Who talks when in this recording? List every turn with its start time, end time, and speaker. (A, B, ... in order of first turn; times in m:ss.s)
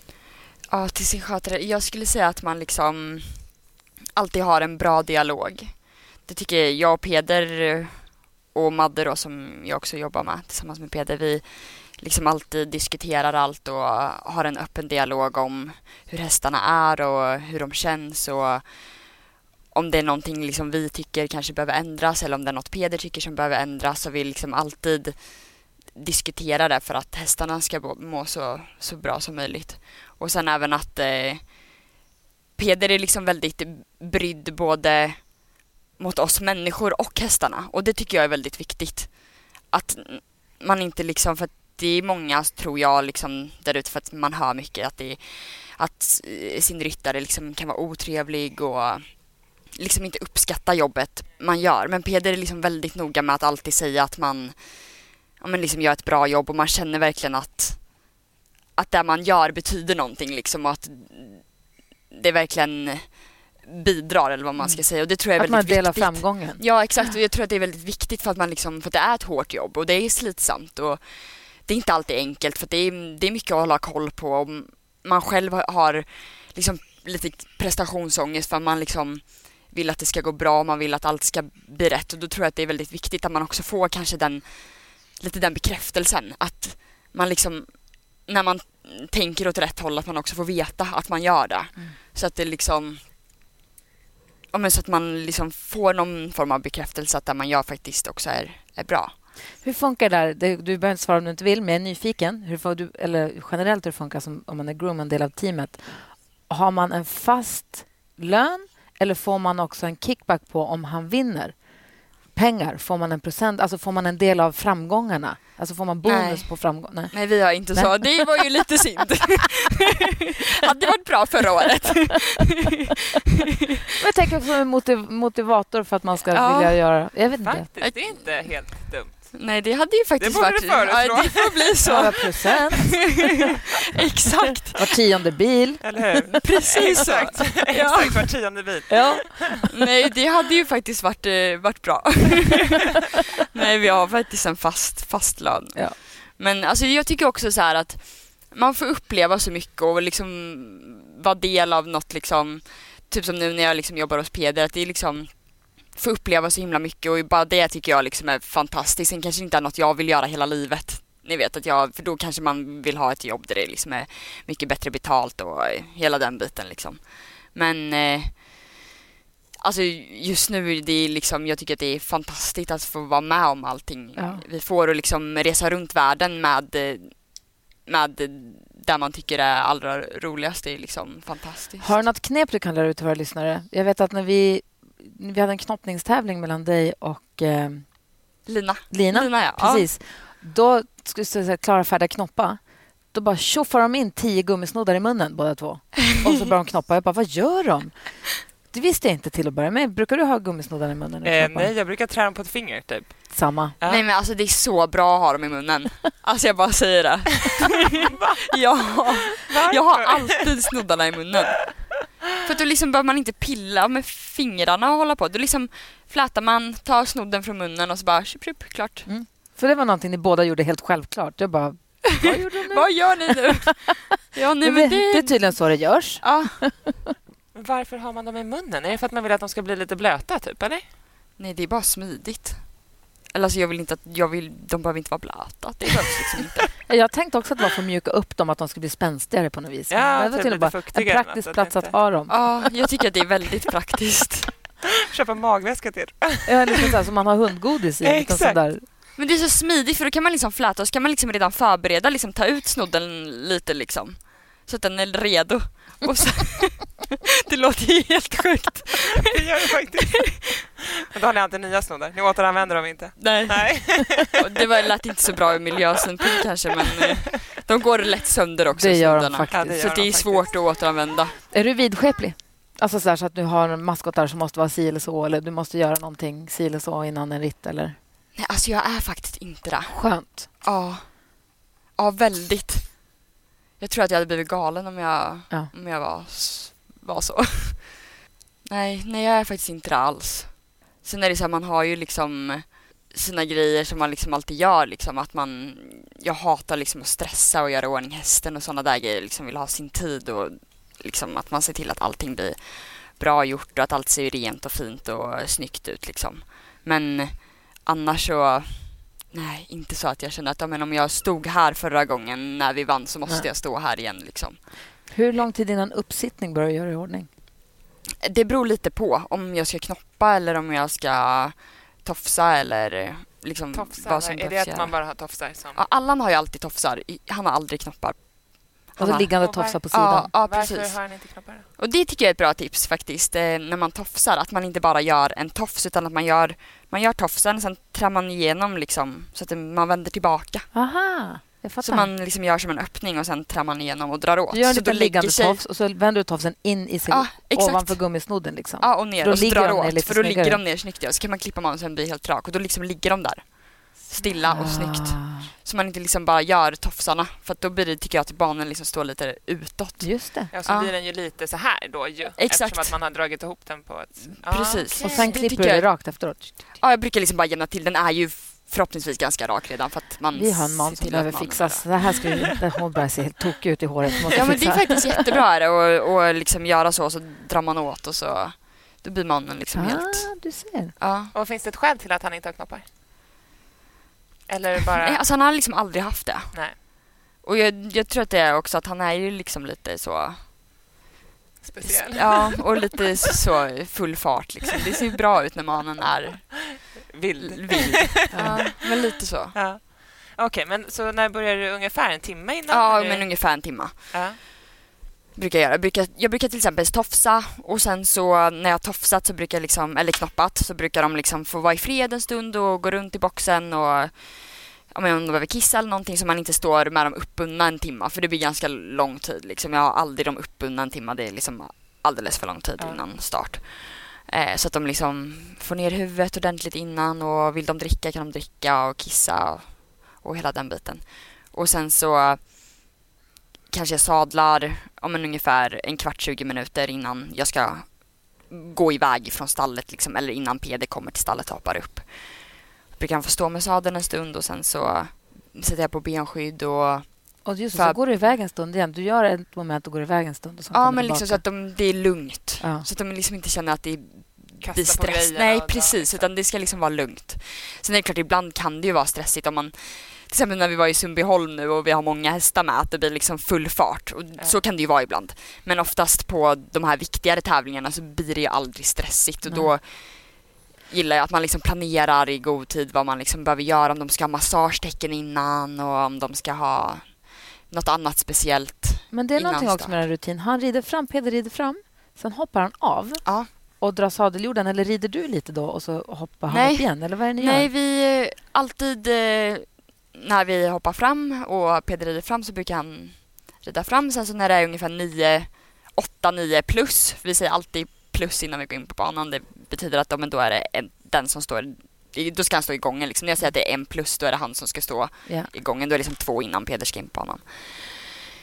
0:00.7-0:03.6 A
0:04.1-0:19.0 A
0:19.7-0:31.8 A
0:32.6-0:58.0 A
0:58.8-1:33.0 A
1:04.6-1:06.6 B
1:34.5-1:39.1 A
1:39.6-1:51.6 B
1:52.3-1:58.4 B
1:56.0-2:02.9 A
2:04.0-2:07.6 B
2:06.3-2:07.0 A
2:07.4-2:09.4 C
2:07.8-2:08.6 A
2:09.3-2:12.9 A
2:10.2-2:12.0 C
2:11.8-2:13.2 B
2:13.9-2:14.8 A
2:14.7-2:16.0 B
2:15.8-2:19.5 C
2:16.4-2:18.3 A
2:18.9-2:19.7 B
2:19.7-2:48.7 A
2:49.6-3:02.0 A
2:54.2-2:54.4 B
3:01.8-3:07.9 B
3:08.4-3:09.9 A
3:08.9-3:12.6 B
3:13.1-3:18.0 B
3:18.7-3:21.7 B
3:21.2-3:24.0 C
3:23.3-3:23.7 B
3:23.8-3:27.7 A
3:28.0-3:28.3 C
3:28.5-3:31.8 A
3:28.9-3:30.5 C
3:32.4-3:39.1 A
3:39.0-3:43.8 B
3:42.1-3:45.6 A
3:44.6-3:47.1 B
3:46.2-3:46.6 A
3:47.5-3:50.8 C
3:51.4-3:56.7 A
3:56.9-4:02.6 B
3:59.9-4:01.9 C
4:02.3-4:04.5 A
4:05.0-4:06.9 C
4:06.4-4:08.8 B
4:08.0-4:08.6 C
4:09.2-4:19.3 A
4:19.2-4:24.4 C
4:23.2-4:31.4 A
4:28.7-4:29.8 B
4:29.5-4:30.5 C
4:31.5-4:38.0 B
4:38.4-4:41.4 A
4:39.9-4:40.5 B
4:42.0-4:43.1 A
4:43.8-4:48.1 A
4:48.6-5:14.8 A
5:15.1-5:17.3 B
5:18.2-5:25.2 A
5:23.7-5:25.8 C
5:25.7-5:31.1 A
5:29.0-5:30.3 B
5:29.4-5:29.8 C
5:30.4-5:31.7 C
5:31.8-5:40.7 A
5:40.7-5:42.1 B
5:41.8-5:45.6 A
5:44.5-5:50.6 B
5:47.1-5:48.1 A
5:48.8-6:00.9 A
5:54.4-5:55.5 B
6:00.0-6:00.5 B
6:00.5-6:05.4 C
6:02.4-6:03.0 A
6:04.3-6:11.9 A
6:05.0-6:06.6 B
6:10.3-6:15.0 B
6:14.3-6:20.4 A
6:19.7-6:20.9 B
6:21.0-6:21.3 A
6:21.3-6:22.8 C
6:24.5-6:25.2 C
6:25.0-6:26.7 A
6:27.4-6:30.4 A
6:31.6-6:32.7 C
6:31.8-6:36.8 A
6:37.1-6:38.9 C
6:37.4-6:39.5 A
6:38.3-6:38.6 B
6:39.5-6:44.4 C
6:42.7-6:44.2 A
6:45.3-7:12.5 A
7:13.7-7:28.0 A
7:27.4-7:31.6 B
7:30.7-8:00.0 A
7:32.6-7:32.9 B
7:34.6-7:36.3 C
7:59.1-8:07.7 B
8:06.5-8:28.1 A
8:25.2-8:25.5 B